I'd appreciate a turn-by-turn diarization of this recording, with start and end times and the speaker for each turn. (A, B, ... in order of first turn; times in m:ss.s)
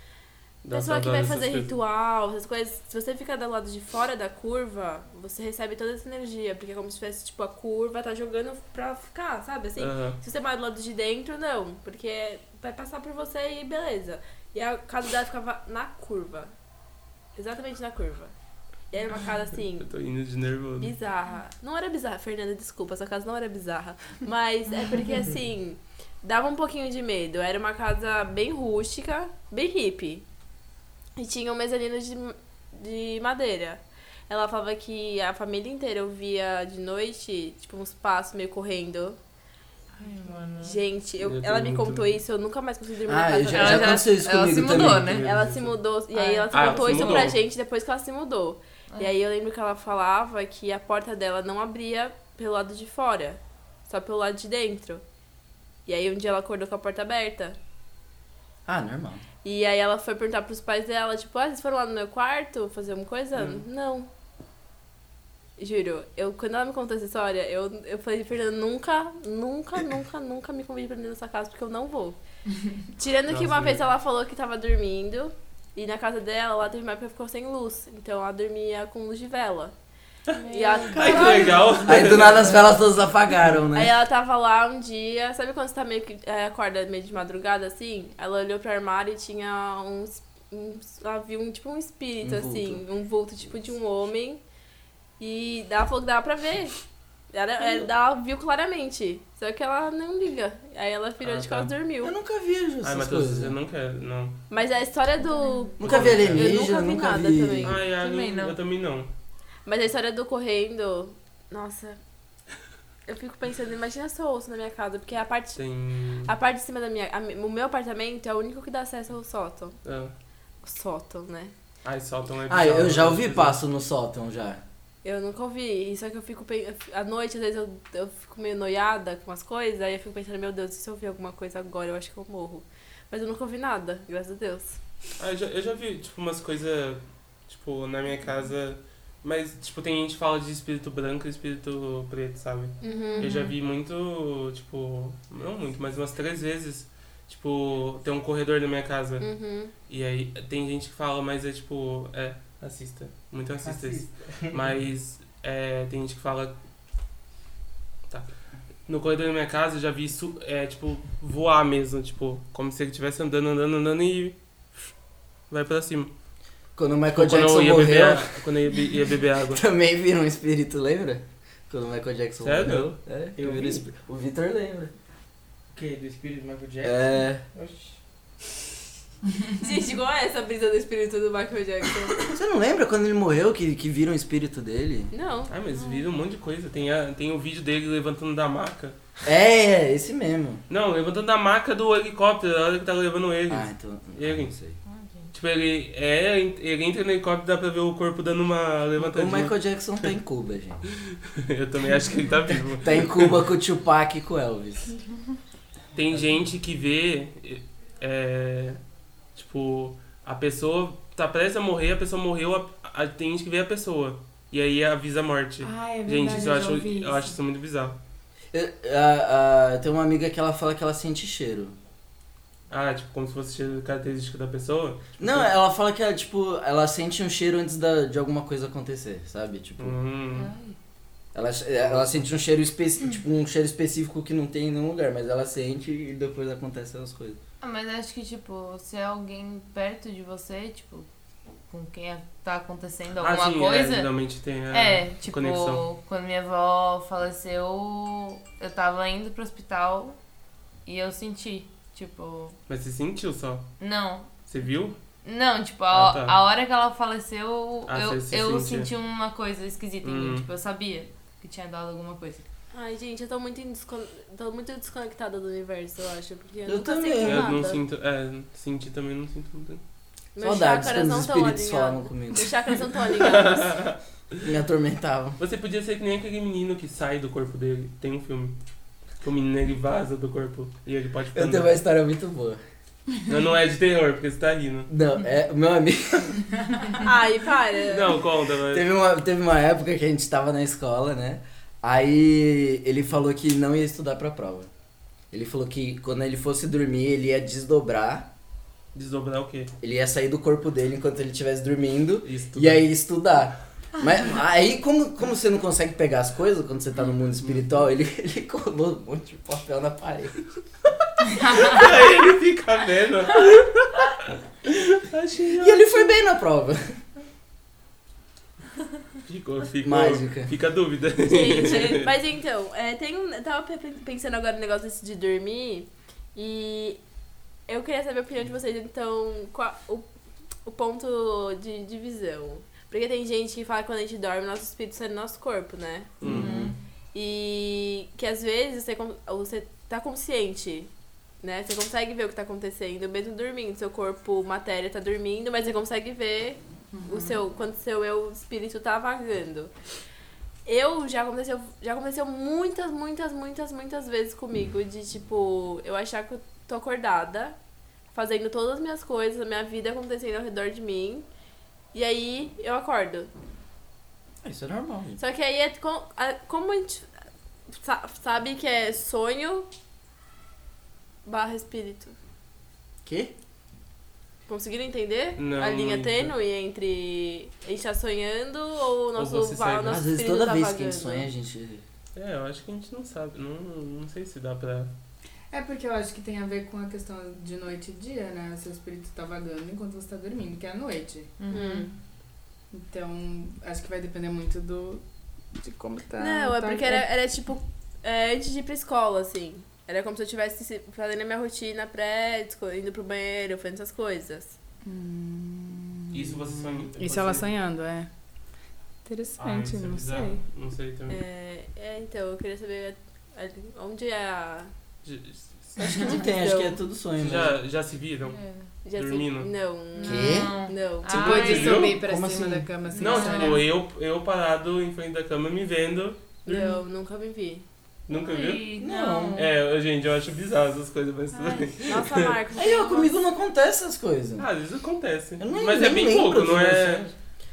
0:00.6-0:01.7 A
0:00.7-0:16.5 B
0:09.8-0:10.2 A
0:17.4-0:18.3 B
0:18.9-0:19.9 B
0:19.8-0:20.9 A
0:20.8-0:30.2 B
0:31.2-0:39.2 B
0:40.0-0:40.8 C
0:40.6-0:44.0 B
0:41.2-0:42.2 A
0:43.1-0:45.2 D
0:43.5-0:45.3 C
0:44.6-0:45.7 A
0:45.2-0:55.0 B
0:46.1-0:47.3 C
0:46.5-0:47.4 A
0:55.9-0:57.6 B
0:58.6-0:59.2 D
0:59.4-1:04.1 B
1:03.4-1:03.6 A
1:05.6-1:12.2 B
1:13.0-1:19.7 B
1:13.3-1:13.8 A
1:20.3-1:22.6 A
1:20.3-1:21.8 C
1:20.5-1:22.0 B
1:21.9-1:23.9 D
1:23.7-1:34.4 B
1:32.2-1:32.8 D
1:35.2-1:42.1 B
1:41.2-1:41.7 A
1:42.0-1:43.6 D
1:42.8-1:44.4 A
1:44.5-1:47.8 B
1:45.8-1:47.8 D
1:45.8-1:46.6 A
1:47.6-1:49.1 A
1:47.9-1:48.6 C
1:49.6-1:52.0 B
1:53.1-1:55.6 B
1:55.6-1:56.3 A
1:56.2-1:59.8 B
1:59.8-2:00.1 A
2:00.6-2:01.5 B
2:01.8-2:03.6 A
2:02.5-2:04.6 D
2:05.0-2:14.8 B
2:15.2-2:29.3 A
2:22.8-2:23.3 B
2:22.9-2:23.5 C
2:29.2-2:29.7 B
2:29.9-2:36.6 A
2:33.6-2:34.8 E
2:38.9-2:44.4 A
2:45.5-2:46.1 A
2:46.8-2:48.4 D
2:47.1-2:49.6 A
2:49.5-2:54.9 D
2:52.4-2:52.9 A
2:53.4-2:53.8 E
2:55.7-2:58.0 E
2:56.8-2:57.4 D
2:59.6-3:02.3 B
3:02.3-3:05.1 D
3:05.1-3:05.5 B
3:05.5-3:09.0 A
3:05.7-3:06.0 C
3:09.2-3:10.6 D
3:10.7-3:14.5 A
3:13.5-3:14.8 D
3:14.9-3:15.3 C
3:15.3-3:19.6 A
3:19.0-3:20.8 D
3:21.0-3:23.4 A
3:22.8-3:24.9 D
3:25.9-3:28.8 A
3:29.4-3:38.0 A
3:35.6-3:37.4 F
3:38.5-3:41.8 D
3:42.7-3:45.5 A
3:45.2-3:50.0 D
3:49.8-3:50.5 A
3:50.3-3:50.8 C
3:51.3-3:57.4 D
3:51.8-3:52.2 A
3:57.6-4:01.1 C
4:01.7-4:04.1 C
4:03.2-4:05.9 A
4:04.7-4:10.2 C
4:10.9-4:12.6 C
4:12.7-4:13.7 A
4:13.8-4:14.3 C
4:14.4-4:15.0 A
4:15.2-4:22.4 C
4:15.9-4:16.4 A
4:17.9-4:18.9 A
4:20.0-4:20.5 A
4:22.7-4:27.8 B
4:26.6-4:27.6 D
4:27.2-4:29.8 A
4:30.4-4:33.8 B
4:30.4-4:32.5 D
4:33.2-4:34.0 A
4:34.4-4:35.4 D
4:35.4-4:38.6 A
4:39.2-4:41.8 A
4:41.3-4:42.6 D
4:43.3-4:44.9 A
4:44.9-4:46.4 D
4:46.9-4:48.2 B
4:47.9-4:48.9 A
4:48.7-4:54.7 D
4:55.3-4:58.3 D
4:58.9-4:59.7 A
4:59.8-5:10.4 D
5:02.2-5:02.9 A
5:11.4-5:16.1 A
5:15.6-5:16.8 D
5:19.2-5:22.1 A
5:19.8-5:20.5 D
5:21.2-5:27.0 B
5:27.7-5:30.1 B
5:30.6-5:36.2 B
5:36.2-5:36.6 A
5:36.2-5:36.7 D
5:36.3-5:36.7 C
5:37.1-5:40.9 B
5:41.4-5:49.7 B
5:46.9-5:47.4 F
5:50.6-5:57.6 B
5:58.1-6:01.3 B
6:01.9-6:03.3 B
6:04.4-6:05.2 D
6:05.2-6:07.1 B
6:07.8-6:09.7 B
6:11.3-6:12.1 B
6:13.0-6:13.3 D
6:14.5-6:21.3 B
6:15.4-6:16.3 A
6:19.2-6:20.0 A
6:19.8-6:21.8 D
6:22.1-6:24.9 A
6:25.5-6:31.4 F
6:31.4-6:31.9 C
6:31.5-6:31.9 B
6:32.7-6:35.0 F
6:35.6-6:37.0 F
6:36.2-6:44.6 B
6:44.8-6:48.1 F
6:46.1-6:47.5 A
6:49.1-6:50.4 F
6:49.4-6:51.2 A
6:51.1-6:54.7 B
6:55.0-6:56.1 A
6:55.8-6:56.8 B
6:55.9-6:57.6 D
6:57.2-6:58.4 A
6:58.3-6:58.7 C
6:58.8-7:01.4 B
6:58.9-6:59.5 A
6:59.9-7:01.9 C
7:00.0-7:00.5 D
7:01.1-7:03.6 F
7:01.2-7:02.0 A
7:01.9-7:02.7 D
7:03.0-7:03.6 C
7:03.0-7:06.2 A
7:06.4-7:07.6 B
7:08.1-7:08.7 A
7:08.1-7:09.5 C
7:08.8-7:09.4 D
7:09.4-7:12.3 A
7:11.3-7:11.8 C
7:11.9-7:13.2 B
7:12.6-7:14.5 D
7:14.4-7:17.1 A
7:15.4-7:17.1 D